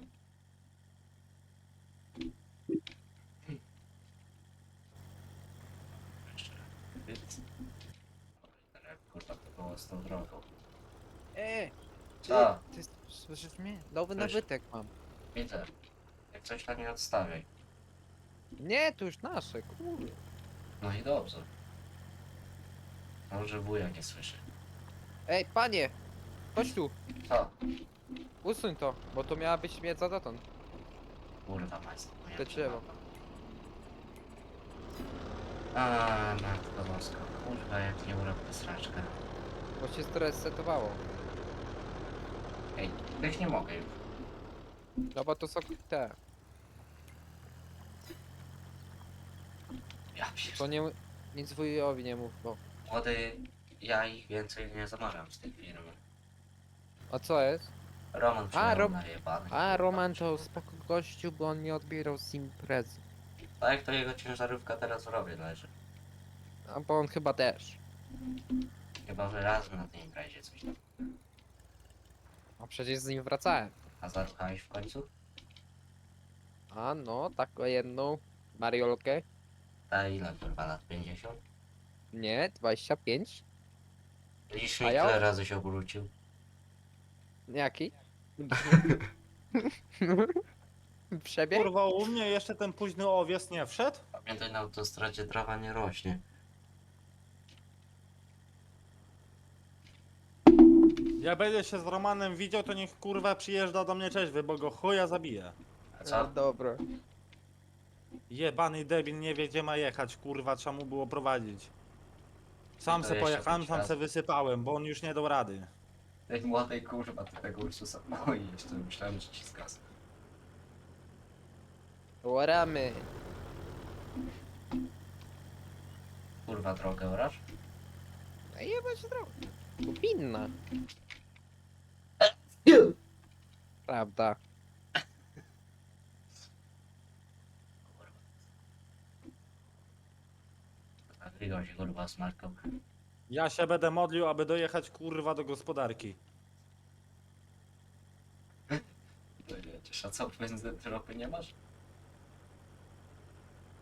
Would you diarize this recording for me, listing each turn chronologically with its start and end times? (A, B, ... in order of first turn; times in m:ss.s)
0:06.0-0:07.2 A
0:08.4-0:10.5 A
0:11.3-0:11.7 B
0:12.2-0:12.6 A
0:12.3-0:14.9 B
0:14.2-0:14.4 A
0:15.3-0:15.7 A
0:16.3-0:17.5 A
0:18.6-0:20.2 B
0:20.8-0:21.5 A
0:23.3-0:24.4 A
0:25.3-0:26.0 B
0:26.5-0:26.9 B
0:26.6-0:27.6 A
0:28.4-0:30.4 B
0:31.4-0:33.1 A
0:32.3-0:32.8 B
0:35.7-0:39.2 A
0:39.8-0:41.0 B
0:42.7-0:44.0 A
0:45.1-0:46.2 B
0:50.1-0:50.7 A
0:50.5-0:52.6 B
0:52.8-0:56.0 A
0:57.1-0:57.7 B
0:58.1-1:00.5 A
0:58.5-0:59.0 B
0:59.5-1:03.0 B
1:03.6-1:05.7 A
1:06.7-1:07.8 B
1:09.0-1:11.0 A
1:12.6-1:13.8 B
1:14.0-1:15.1 A
1:16.7-1:19.2 B
1:19.9-1:21.4 A
1:22.1-1:23.4 B
1:24.5-1:26.1 A
1:24.8-1:25.2 B
1:27.5-1:28.9 B
1:29.6-1:30.4 B
1:31.1-1:31.7 B
1:31.5-1:34.0 C
1:34.1-1:36.2 A
1:41.2-1:45.6 C
1:45.9-1:46.3 A
1:46.0-1:46.8 B
1:48.3-1:51.7 C
1:52.8-1:55.7 C
1:52.9-1:53.9 A
1:56.3-1:59.8 A
2:02.2-2:03.1 B
2:06.4-2:07.4 A
2:08.5-2:10.5 B
2:12.2-2:12.9 A
2:13.9-2:14.4 B
2:17.8-2:18.2 A
2:21.1-2:22.6 A
2:23.3-2:26.2 C
2:29.4-2:31.5 A